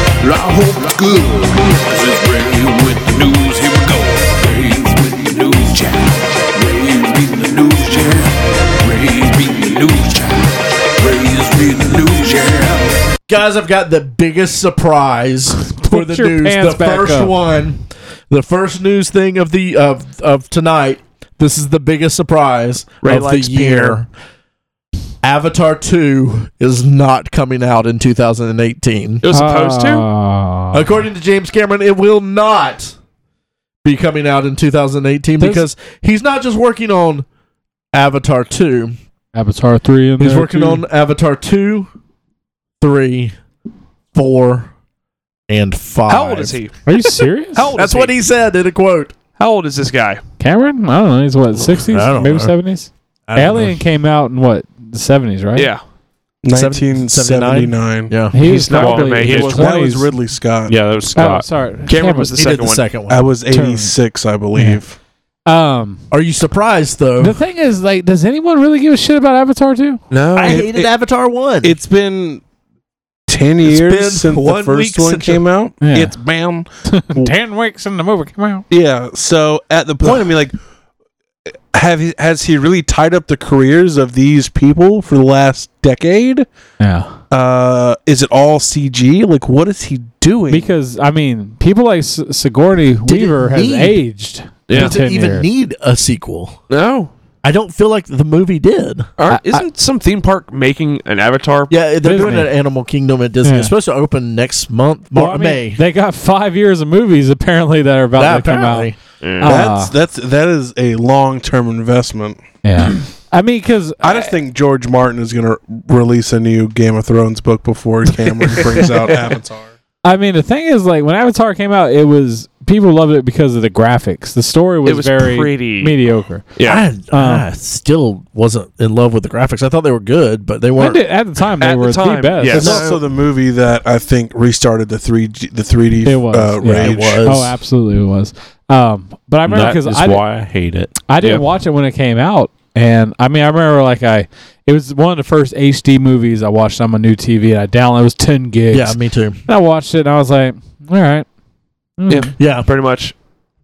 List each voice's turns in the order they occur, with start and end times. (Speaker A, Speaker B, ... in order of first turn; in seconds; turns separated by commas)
Speaker A: 0.2-13.0, Speaker B: 13.3-24.1, Speaker C: 15.7-17.4, Speaker D: 23.0-24.0, Speaker B: 25.2-29.2, Speaker D: 29.2-30.0, Speaker C: 29.3-30.8, Speaker B: 30.7-33.0, Speaker B: 33.8-37.2, Speaker C: 35.4-35.7, Speaker B: 37.9-39.0, Speaker C: 39.3-40.8, Speaker B: 40.2-41.9, Speaker B: 42.8-43.4, Speaker B: 44.1-44.7, Speaker B: 45.5-46.6, Speaker D: 46.1-47.0, Speaker C: 46.9-47.7, Speaker D: 47.5-48.1, Speaker B: 47.7-49.1, Speaker D: 49.4-50.2, Speaker C: 50.4-55.7, Speaker B: 51.5-52.5, Speaker B: 53.3-53.8, Speaker D: 55.5-55.8, Speaker E: 56.4-58.1, Speaker B: 56.5-58.4, Speaker C: 58.3-60.1, Speaker D: 58.4-59.7, Speaker F: 58.7-59.5, Speaker E: 59.2-60.8, Speaker F: 60.7-61.5, Speaker C: 61.1-62.4, Speaker D: 61.9-62.8, Speaker B: 62.4-63.3, Speaker E: 63.1-64.9, Speaker C: 63.5-63.9, Speaker C: 64.5-64.8, Speaker C: 65.5-66.0, Speaker B: 66.1-67.4, Speaker C: 67.2-70.0, Speaker D: 70.1-70.7, Speaker B: 70.3-71.8, Speaker E: 70.4-70.9, Speaker E: 71.6-72.4, Speaker E: 73.3-77.3, Speaker B: 73.6-75.4, Speaker C: 75.8-76.1, Speaker C: 76.8-78.6, Speaker E: 78.7-80.5, Speaker E: 81.7-86.5, Speaker C: 86.8-87.2, Speaker E: 87.3-90.7, Speaker C: 90.5-95.5, Speaker B: 93.0-94.0, Speaker D: 94.7-95.0, Speaker B: 94.7-96.6, Speaker D: 96.7-97.1, Speaker B: 97.4-99.1, Speaker D: 99.2-101.7, Speaker C: 99.3-99.7, Speaker B: 101.7-105.8, Speaker C: 102.0-102.5, Speaker C: 103.4-103.7, Speaker C: 105.1-109.9, Speaker B: 108.2-109.0, Speaker D: 109.2-109.5, Speaker E: 109.4-112.4, Speaker C: 112.6-114.3, Speaker E: 114.0-119.7, Speaker C: 120.0-126.5, Speaker D: 124.8-126.0, Speaker D: 126.5-126.8, Speaker B: 126.6-131.0, Speaker C: 127.1-127.5, Speaker C: 130.8-132.8, Speaker D: 131.6-132.8, Speaker B: 132.5-133.0, Speaker E: 132.5-137.4, Speaker C: 136.0-140.2, Speaker B: 136.7-137.5, Speaker F: 139.4-141.4, Speaker C: 141.1-151.2, Speaker B: 148.7-149.4, Speaker C: 152.0-152.3, Speaker D: 152.1-153.1, Speaker B: 152.4-152.7